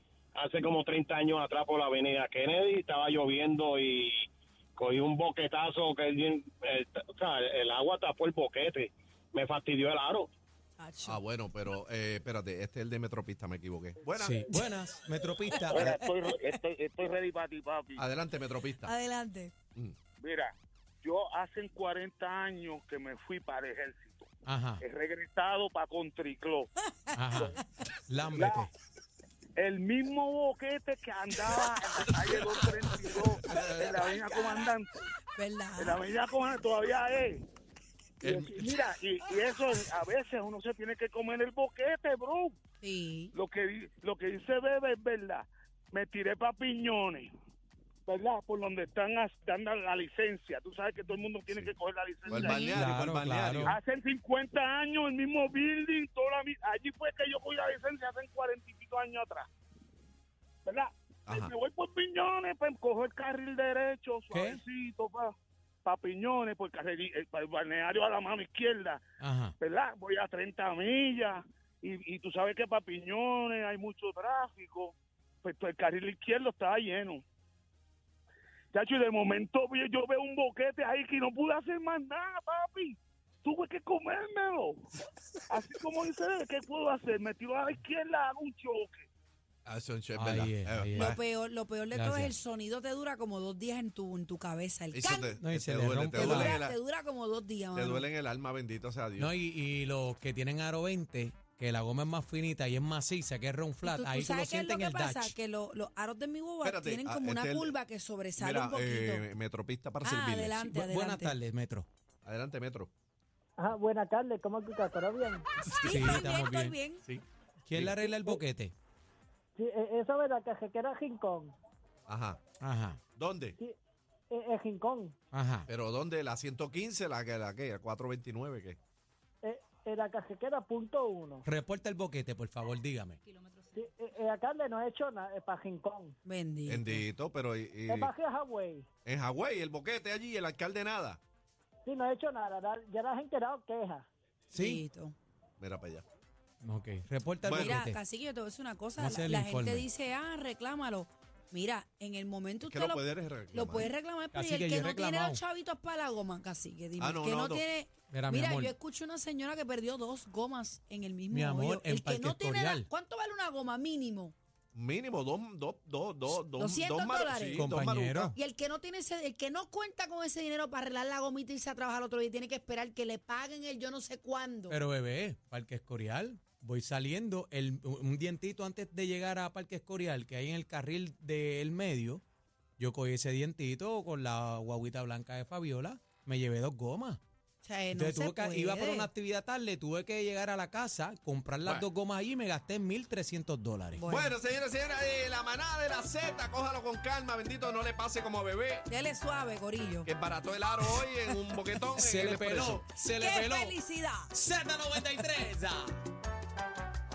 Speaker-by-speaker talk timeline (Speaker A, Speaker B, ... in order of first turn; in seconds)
Speaker A: 0.3-10.3
Speaker B: 10.8-11.2, 15.7-16.0, 18.8-19.5, 26.9-27.6, 33.5-34.7, 35.4-36.0, 42.8-43.3, 52.3-52.8, 91.0-95.4, 96.1-98.1, 103.8-109.3, 110.0-111.4, 115.8-117.0, 136.2-137.0, 144.5-145.2, 147.5-164.3, 166.4-167.7, 168.3-174.8, 187.6-189.1, 194.0-194.3, 198.9-200.1, 203.0-204.3
Speaker C: 11.1-14.6, 18.0-18.9, 38.2-38.7, 52.3-53.8, 89.7-91.2, 94.9-96.8, 97.8-99.3, 106.6-107.7, 108.4-110.6, 112.2-112.9, 117.7-118.1, 122.1-122.4, 123.2-123.6, 125.7-128.8, 136.7-138.1, 139.1-141.2, 145.6-146.1, 147.4-147.8, 152.6-153.9, 157.0-157.6, 164.7-168.3, 194.1-198.9, 200.1-202.8
Speaker D: 14.2-15.9, 24.5-24.8, 27.1-28.7, 52.7-53.8, 64.3-64.6, 69.2-69.5, 90.2-91.2, 91.9-92.3, 95.4-96.6, 99.2-105.3, 110.7-111.9, 115.7-116.8, 117.7-118.7, 122.6-123.0, 125.3-125.7, 131.4-133.2, 144.5-144.8, 146.6-148.0, 149.0-149.9, 154.3-155.4, 158.1-158.7, 161.3-162.9, 167.5-168.4, 174.7-182.2, 182.8-187.2, 187.9-194.1, 201.9-203.8, 204.3-206.0
Speaker E: 15.7-18.1, 20.2-24.3, 24.8-26.7, 28.3-28.7, 29.6-35.1, 35.8-37.4, 38.2-42.6, 43.3-47.3, 48.1-52.8, 53.6-59.5, 60.6-65.3, 65.8-69.0, 69.6-77.2, 78.7-84.8, 85.5-89.1
Speaker F: 113.6-115.5, 119.6-121.5, 124.3-125.2, 129.4-131.4, 133.7-136.2, 137.9-138.9, 141.9-144.1